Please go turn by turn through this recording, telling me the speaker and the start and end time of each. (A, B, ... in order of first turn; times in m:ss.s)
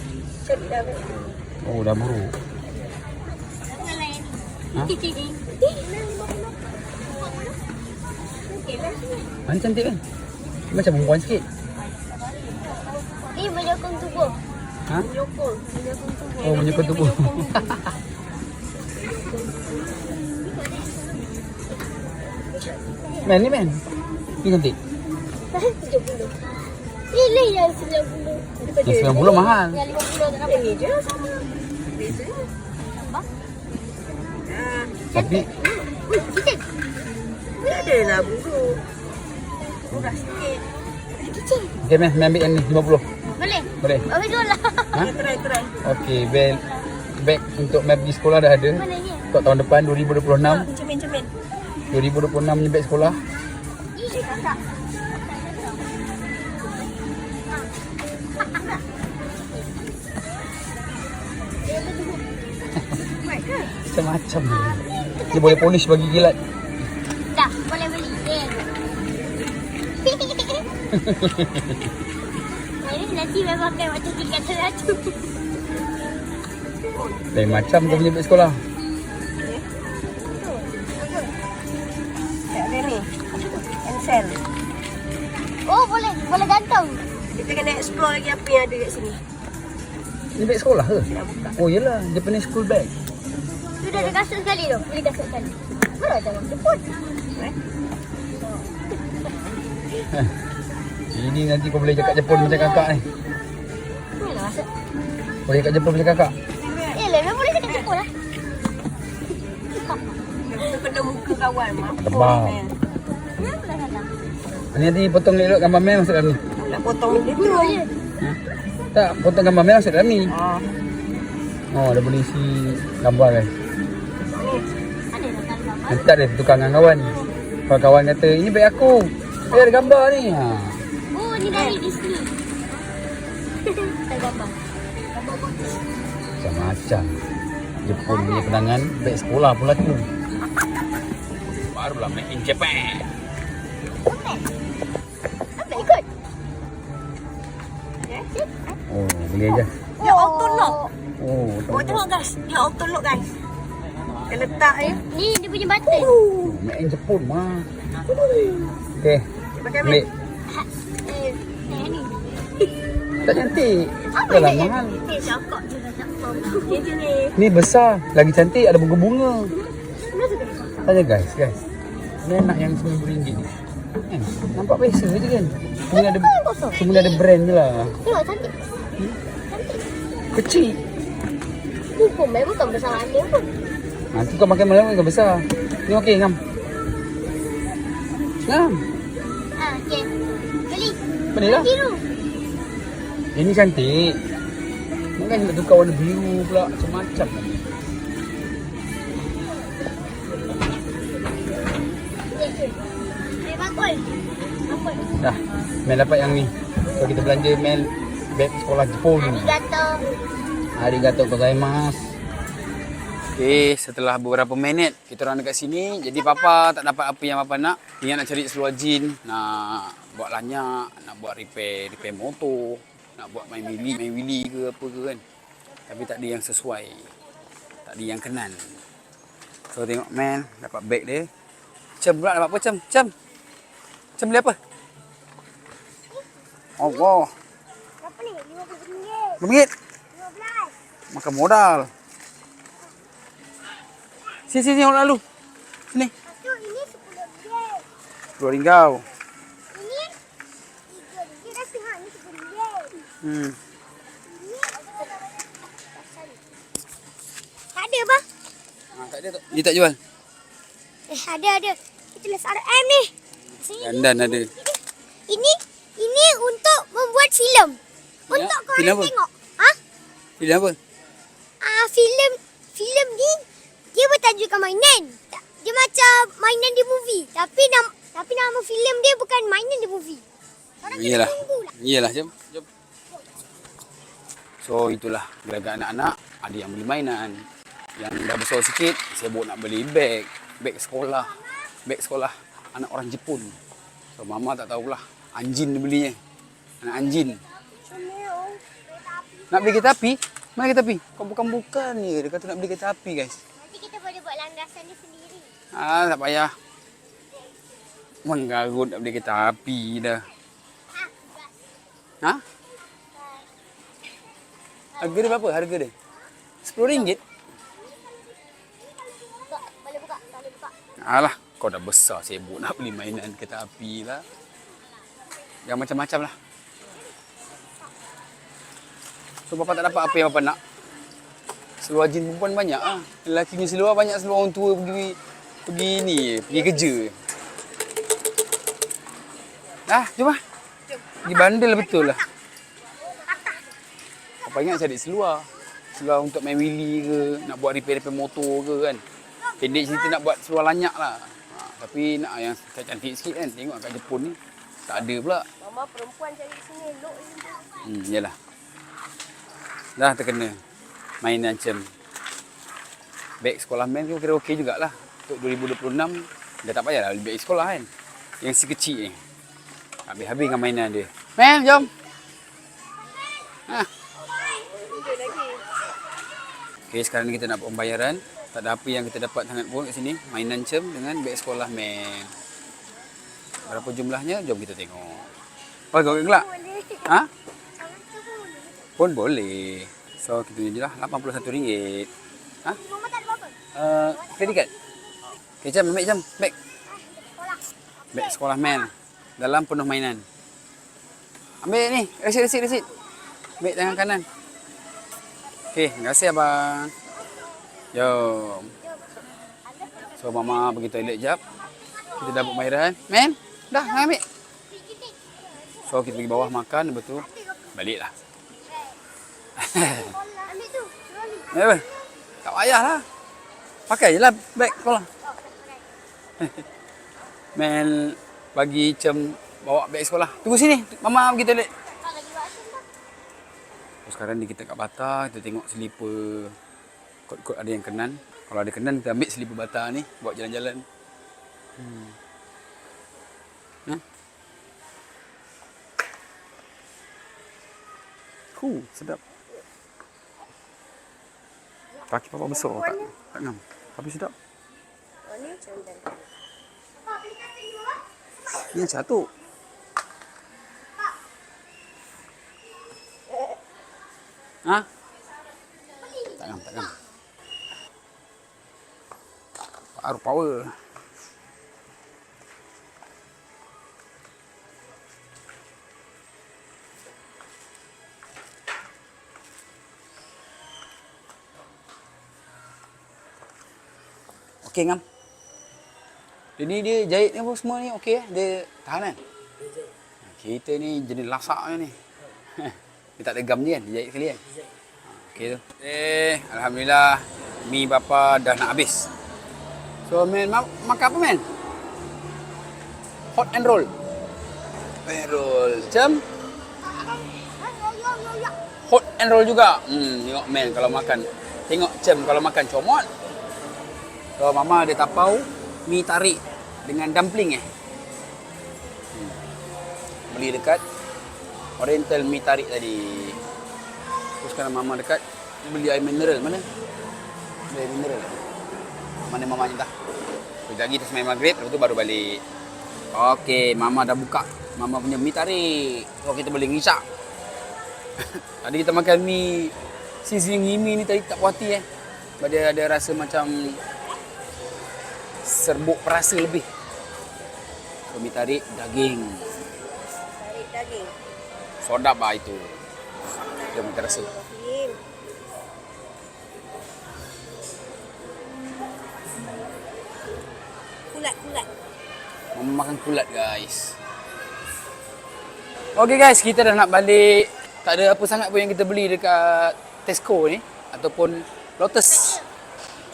0:00.4-0:01.4 A
0:01.6-0:02.4 B
0:03.7-0:05.4 C
0:05.6-0:06.5 A
0:07.1-0:07.5 C
0:08.5-0:09.3 A
0:09.5-0:10.0 B
0:10.7-0:11.4 B
0:13.3-0:14.4 C
0:15.0-0:15.7 A
0:15.7-0:17.5 C
0:16.4-0:17.8 B
0:18.9-0:20.0 A
0:20.4-0:21.0 C
0:22.6-0:23.2 C
0:23.2-0:23.8 B
0:24.4-0:24.8 B
0:25.8-0:26.3 A
0:27.1-0:28.6 C
0:28.6-0:29.4 A
0:28.8-0:29.8 B
0:29.2-0:30.8 C
0:30.4-0:32.5 A
0:33.0-0:33.3 C
0:34.4-0:35.0 A
0:35.1-0:35.5 B
0:35.1-0:36.6 C
0:37.6-0:38.3 C
0:37.6-0:38.8 A
0:39.9-0:40.6 A
0:39.9-0:40.2 B
0:41.2-0:41.7 C
0:41.8-0:43.0 B
0:43.4-0:45.1 C
0:45.0-0:45.8 A
0:45.8-0:46.6 B
0:47.2-0:50.7 B
0:48.7-0:49.2 C
0:50.4-0:51.3 A
0:51.9-0:53.2 B
0:53.9-0:54.3 C
0:54.1-0:54.6 A
0:55.2-0:55.8 C
1:01.6-1:02.2 C
1:03.2-1:03.7 A
1:03.8-1:06.4 B
1:04.5-1:05.7 C
1:07.3-1:08.6 C
1:10.0-1:10.6 C
1:10.9-1:11.8 B
1:12.8-1:15.2 C
1:16.9-1:17.2 A
1:17.3-1:18.6 B
1:20.4-1:20.7 C
1:22.5-1:24.4 A
1:25.6-1:27.0 C
1:27.3-1:29.2 A
1:30.3-1:32.9 B
1:31.1-1:31.6 A
1:33.8-1:36.8 C
1:41.1-1:43.0 B
1:41.8-1:42.9 C
1:44.2-1:44.7 C
1:45.5-1:46.3 B
1:46.6-1:47.0 A
1:46.9-1:48.1 C
1:50.4-1:52.7 A
1:52.0-1:52.6 B
1:53.4-1:54.1 C
1:54.7-1:56.4 B
1:56.6-1:57.8 A
1:57.1-1:57.9 C
1:58.9-2:00.3 B
2:00.3-2:00.7 A
2:01.7-2:03.5 B
2:04.3-2:04.7 A
2:05.1-2:06.0 C
2:05.9-2:07.1 B
2:07.7-2:10.8 B
2:11.1-2:12.3 C
2:11.5-2:11.8 A
2:13.7-2:14.5 C
2:15.2-2:15.6 C
2:16.4-2:17.1 B
2:17.8-2:20.1 B
2:18.0-2:18.7 C
2:21.6-2:23.1 B
2:24.0-2:24.4 C
2:25.6-2:26.0 C
2:28.9-2:29.7 B
2:30.0-2:30.9 C
2:30.0-2:30.9 A
2:31.2-2:32.0 B
2:31.7-2:33.3 A
2:34.3-2:35.0 A
2:34.9-2:36.2 C
2:35.9-2:36.5 A
2:36.4-2:37.7 B
2:38.1-2:38.8 A
2:39.0-2:39.2 B
2:39.5-2:40.1 A
2:39.8-2:40.1 B
2:40.5-2:42.2 C
2:43.2-2:45.0 B
2:44.1-2:46.8 C
2:45.0-2:45.6 A
2:46.3-2:47.3 A
2:47.4-2:49.5 B
2:50.1-2:50.6 C
2:50.8-2:51.6 B
2:52.2-2:53.5 B
2:54.1-2:58.0 B
2:55.9-2:57.2 C
2:58.0-2:58.6 C
2:59.5-2:59.8 C
3:00.3-3:00.8 B
3:02.0-3:03.5 C
3:04.1-3:06.4 B
3:08.4-3:08.8 B
3:09.6-3:10.1 C
3:10.7-3:12.0 C
3:11.3-3:11.7 B
3:13.3-3:14.2 B
3:15.2-3:17.6 B
3:22.3-3:22.8 C
3:23.4-3:24.2 C
3:25.2-3:29.6 B
3:29.2-3:30.0 C
3:30.8-3:32.1 B
3:33.3-3:45.2 B
3:35.9-3:36.6 C
3:43.7-3:44.0 C
3:45.9-3:47.1 B
3:47.8-3:48.8 B
3:49.7-3:51.3 B
3:52.0-3:53.1 B
3:54.2-3:54.6 B
3:56.8-3:57.3 B
3:56.8-3:57.1 C
3:58.0-3:59.4 C
3:59.4-3:59.7 B
4:00.1-4:00.7 C
4:01.1-4:01.9 B
4:04.5-4:05.2 B
4:06.3-4:07.8 C
4:08.4-4:09.0 B
4:09.7-4:10.1 C
4:10.9-4:13.1 C
4:13.2-4:13.6 B
4:14.3-4:16.4 C
4:17.7-4:18.2 C
4:18.9-4:20.0 B
4:21.1-4:27.8 C
4:23.8-4:24.5 B
4:28.3-4:29.1 B
4:28.3-4:29.8 C
4:30.4-4:30.8 B
4:31.6-4:33.4 C
4:33.9-4:40.2 C
4:40.8-4:41.7 C
4:40.8-4:42.6 B
4:44.6-4:47.4 B
4:48.0-4:53.5 B
4:54.1-4:56.2 B
4:56.8-4:57.4 B
4:56.9-4:59.9 C
4:59.5-5:03.4 B
5:03.6-5:05.5 C
5:05.7-5:06.5 B
5:08.2-5:10.2 B
5:10.9-5:11.5 C
5:13.1-5:13.4 C
5:14.9-5:15.4 C
5:15.0-5:15.9 B
5:16.6-5:17.2 B
5:16.8-5:17.2 C
5:19.0-5:20.7 C
5:21.0-5:24.2 B
5:25.6-5:26.3 B
5:29.5-5:30.6 B
5:31.8-5:37.2 B
5:36.5-5:36.9 C
5:39.9-5:40.4 B
5:41.2-5:42.2 B
5:41.3-5:42.2 C
5:44.4-5:49.0 B
5:49.6-5:55.4 B
5:55.6-5:57.7 A
5:57.8-5:58.3 B
6:00.0-6:00.6 B
6:01.2-6:01.8 B
6:03.4-6:07.9 B
6:08.4-6:09.2 B
6:10.1-6:11.9 B
6:14.6-6:15.6 A
6:16.9-6:22.3 B
6:23.6-6:25.3 B
6:25.9-6:26.4 B
6:26.0-6:27.1 C
6:27.8-6:28.9 C
6:29.0-6:32.1 B
6:32.6-6:33.6 C
6:33.7-6:34.7 B
6:34.1-6:34.9 C
6:35.6-6:36.5 B
6:36.9-6:38.9 C
6:38.1-6:40.2 B
6:41.6-6:42.9 B
6:43.6-6:44.2 B
6:45.7-6:46.9 B
6:47.9-6:48.7 B
6:48.8-6:50.8 C
6:50.2-6:51.4 B
6:52.2-6:52.6 C
6:52.2-6:54.2 B
6:53.7-6:54.1 C
6:54.7-6:56.5 C
6:55.8-6:58.1 B
6:57.2-6:57.7 C
6:59.6-7:00.1 B
6:59.8-7:01.9 C
7:01.5-7:01.8 B
7:02.4-7:03.0 B
7:03.9-7:05.1 B
7:05.2-7:05.8 C
7:07.5-7:11.7 B
7:11.9-7:12.8 C
7:14.0-7:16.6 B
7:17.3-7:20.8 B
7:21.8-7:22.1 B
7:28.5-7:29.2 B
7:32.1-7:34.3 B
7:32.6-7:33.0 C
7:35.3-7:36.2 A
7:37.2-7:38.0 C
7:38.6-7:39.3 B
7:46.3-7:47.0 B
7:50.0-7:50.7 B
8:04.6-8:05.0 B
8:06.6-8:09.2 B
8:10.2-8:12.0 B
8:12.6-8:14.4 B
8:15.1-8:19.1 B
8:20.1-8:21.4 B
8:23.3-8:23.9 B
8:25.0-8:26.2 B
8:27.1-8:28.5 C
8:28.8-8:33.1 B
8:34.4-8:37.6 B
8:40.3-8:40.8 B
8:41.8-8:43.4 B
8:44.4-8:46.6 B
8:47.7-8:48.4 B
8:49.3-8:49.9 B
8:50.7-8:52.4 B
8:53.1-8:57.0 B
8:58.6-8:59.7 B
9:00.2-9:01.8 B
9:02.4-9:03.8 B
9:05.4-9:06.6 B
9:08.1-9:09.5 B
9:10.3-9:11.1 A
9:11.8-9:12.7 B
9:13.3-9:15.0 A
9:13.7-9:14.3 B
9:21.1-9:21.7 A
9:22.5-9:24.0 B
9:25.9-9:32.4 B